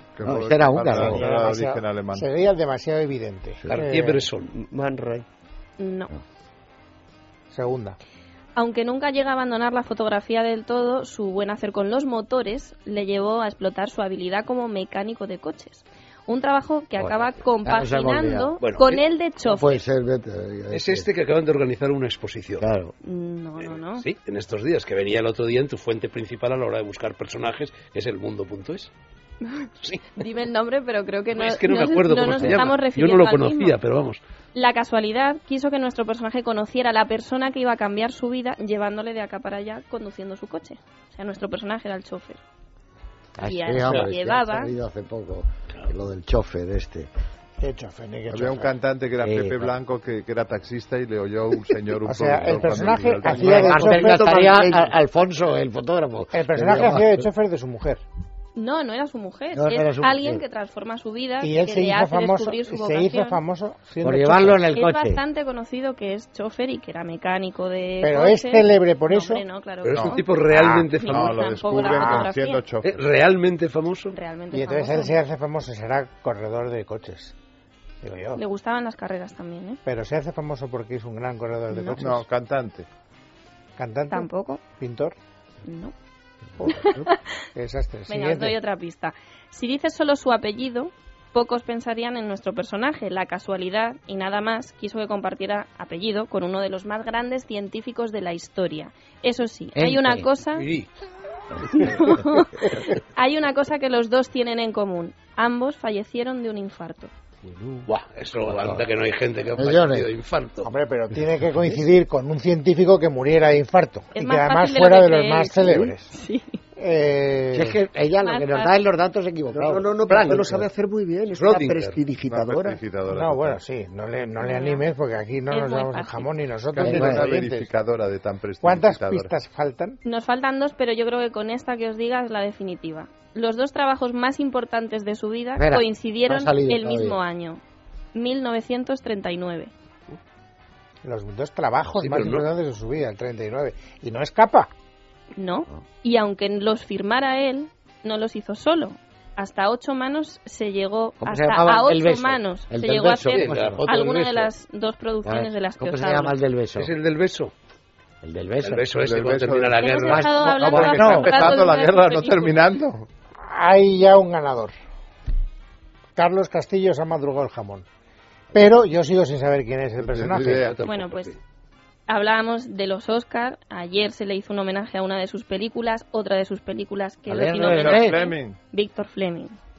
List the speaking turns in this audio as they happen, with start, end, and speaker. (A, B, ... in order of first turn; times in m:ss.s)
0:00.2-0:02.3 A
0:00.2-0:01.2 B
0:01.0-0:04.2 C
0:03.7-0:04.7 D
0:04.7-0:05.2 E
0:05.8-0:06.1 F
0:07.5-0:08.0 C
0:08.6-0:19.8 F
0:17.0-0:18.6 B
0:18.6-0:19.0 D
0:19.4-0:21.1 B
0:20.7-0:22.6 D
0:22.6-0:22.9 B
0:23.0-0:24.1 F
0:23.7-0:28.9 D
0:29.4-0:33.8 F
0:29.8-0:30.1 D
0:31.4-0:34.2 D
0:34.6-0:42.4 F
0:43.4-0:47.1 B
0:43.4-0:44.7 F
0:47.6-0:48.7 C
0:48.3-0:54.0 A
0:49.2-0:49.7 B
0:52.1-0:54.4 C
0:53.3-0:57.3 B
0:53.8-0:54.9 E
0:56.3-0:58.0 C
0:58.6-1:03.4 F
0:59.6-1:00.4 B
1:01.4-1:04.6 C
1:04.0-1:05.2 B
1:04.7-1:12.7 F
1:08.0-1:09.4 C
1:09.8-1:11.4 D
1:09.9-1:13.1 A
1:11.9-1:12.3 C
1:12.8-1:14.2 D
1:14.1-1:15.2 F
1:14.5-1:17.4 C
1:18.0-1:18.4 C
1:18.4-1:19.8 F
1:19.9-1:22.2 C
1:21.7-1:22.0 F
1:22.0-1:22.9 A
1:23.8-1:25.2 C
1:24.1-1:24.6 F
1:25.7-1:25.9 F
1:26.6-1:27.1 B
1:26.6-1:27.2 F
1:27.6-1:28.6 C
1:28.1-1:40.7 F
1:39.8-1:40.3 B
1:40.5-1:40.9 D
1:41.6-1:47.1 F
1:47.5-1:47.8 B
1:47.9-1:50.7 D
1:48.5-1:48.9 B
1:49.6-1:50.1 B
1:50.6-1:56.2 C
1:54.2-1:56.6 F
1:56.8-1:57.8 C
1:57.5-2:00.7 B
1:58.2-1:58.7 F
1:59.5-2:02.8 E
2:01.4-2:02.0 D
2:02.2-2:03.6 A
2:03.1-2:07.7 C
2:04.4-2:04.9 F
2:05.5-2:06.3 F
2:06.7-2:09.3 A
2:06.8-2:07.3 B
2:08.6-2:10.0 C
2:10.0-2:17.6 F
2:15.6-2:17.2 B
2:18.2-2:19.7 F
2:21.0-2:24.7 C
2:22.0-2:22.5 D
2:25.4-2:36.4 F
2:31.2-2:33.8 B
2:33.3-2:34.5 D
2:35.2-2:36.9 B
2:36.8-2:37.5 D
2:38.2-2:38.9 B
2:38.6-2:40.6 D
2:39.0-2:43.1 A
2:39.8-2:42.6 F
2:40.0-2:41.4 B
2:43.4-2:44.7 C
2:46.2-2:47.9 C
2:48.5-2:50.7 C
2:50.0-2:50.9 A
2:50.6-2:51.4 D
2:50.8-2:51.4 F
2:52.1-2:59.6 F
2:57.3-2:58.2 B
2:57.6-2:58.6 A